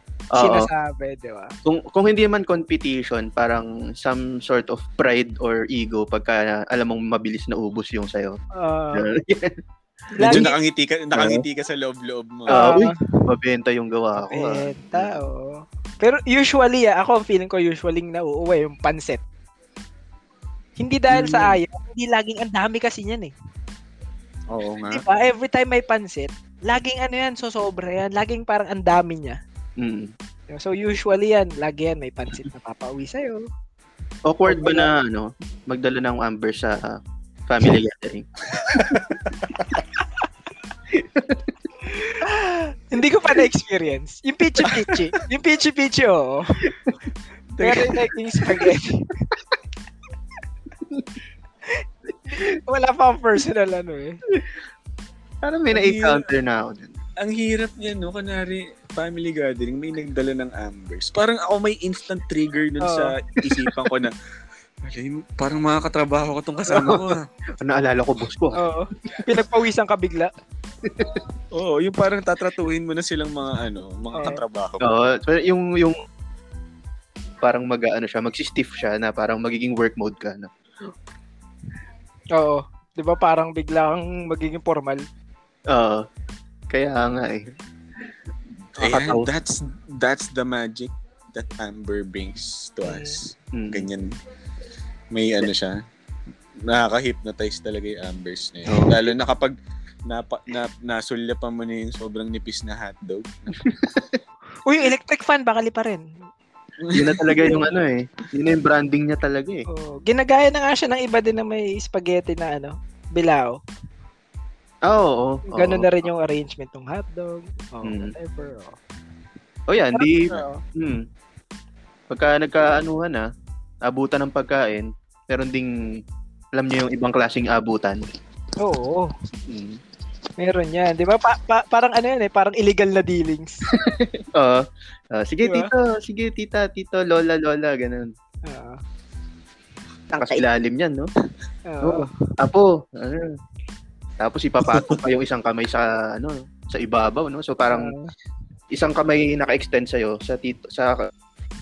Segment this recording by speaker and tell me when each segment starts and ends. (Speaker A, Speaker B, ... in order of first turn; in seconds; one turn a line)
Speaker A: 0.3-0.7
Speaker B: 0.3-1.5
Speaker A: 1.6-8.3
Speaker B: 8.6-9.1
Speaker A: 8.9-9.5
Speaker B: 10.2-10.5
Speaker A: 10.2-10.5
Speaker C: 10.2-12.8
Speaker A: 11.1-11.4
Speaker B: 12.5-12.9
Speaker A: 12.5-15.2
Speaker B: 14.2-19.2
Speaker B: 20.8-23.3
Speaker A: 21.1-21.5
Speaker C: 24.5-25.0
Speaker B: 24.9-29.4
Speaker A: 29.8-30.1
Speaker B: 30.5-33.5
Speaker A: 34.3-38.2
Speaker B: 34.5-34.9
Speaker C: 38.5-39.8
Speaker A: 41.0-41.4
Speaker B: 42.2-46.7
Speaker C: 47.5-48.0
Speaker B: 47.6-49.2
Speaker B: 52.3-54.2
Speaker A: 55.4-57.0
Speaker C: 55.7-56.2
Speaker C: 57.2-64.1
Speaker B: 62.8-63.1
Speaker C: 64.8-67.2
Speaker A: 66.7-68.6
Speaker B: 68.6-70.3
Speaker A: 69.1-69.4
Speaker A: 70.8-71.2
Speaker C: 71.5-74.9
Speaker B: 74.1-74.4
Speaker A: 74.8-76.0
Speaker A: 77.4-80.5
Speaker B: 82.3-85.0
Speaker A: 85.7-86.0
Speaker A: 86.7-87.5
Speaker C: 88.8-94.1
Speaker A: 88.8-89.3
Speaker B: 92.8-93.2
Speaker A: 93.5-93.9
Speaker C: 95.1-95.8
Speaker C: 96.7-99.5
Speaker A: 98.7-99.0
Speaker C: 100.1-103.6
Speaker A: 103.6-104.2
Speaker B: 104.6-106.0
Speaker C: 106.8-107.6
Speaker A: 106.9-109.6
Speaker B: 109.7-113.5
Speaker A: 114.9-115.9
Speaker B: 115.5-118.8
Speaker A: 117.8-118.1
Speaker A: 119.7-121.0
Speaker B: 119.9-120.6
Speaker A: 122.1-123.2
Speaker A: 123.8-125.9
Speaker A: 126.5-128.0
Speaker B: 128.6-129.1
Speaker A: 129.5-129.8
Speaker B: 130.4-133.6
Speaker A: 133.7-138.1
Speaker B: 135.4-135.7
Speaker B: 138.4-138.8
Speaker A: 140.1-141.1
Speaker B: 141.7-142.1
Speaker A: 141.8-143.3
Speaker A: 144.2-147.9
Speaker C: 144.7-145.0
Speaker B: 147.7-148.1
Speaker A: 148.7-151.1